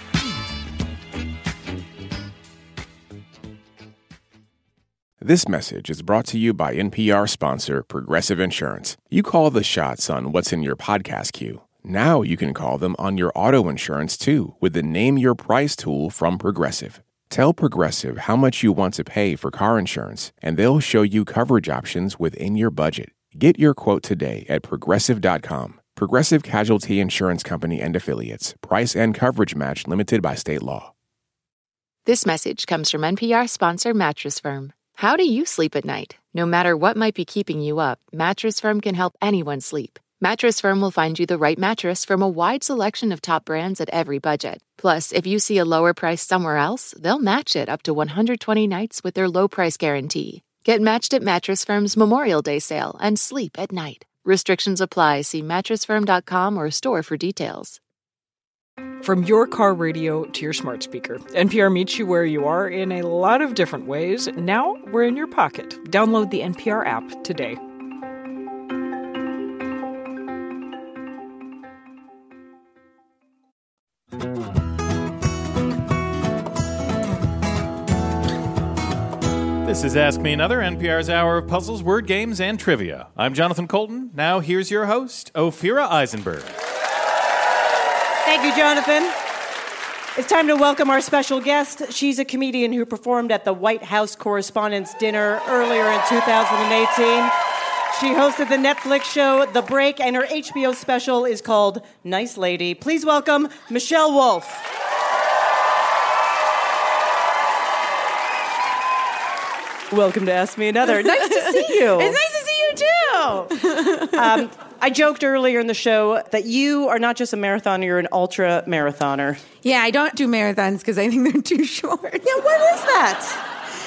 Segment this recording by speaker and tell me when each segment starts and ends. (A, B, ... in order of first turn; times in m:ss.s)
0:05.2-0:30.9 A
0:32.0-0:57.8 B
0:59.0-1:07.6 C
1:19.6-1:26.5 D
1:28.2-1:29.1 E
1:30.2-1:37.3 E
1:37.9-1:44.6 E
1:49.9-1:52.2 E
1:51.0-1:54.2 F
1:54.1-1:59.4 E
1:59.6-2:02.3 F
2:02.2-2:03.4 E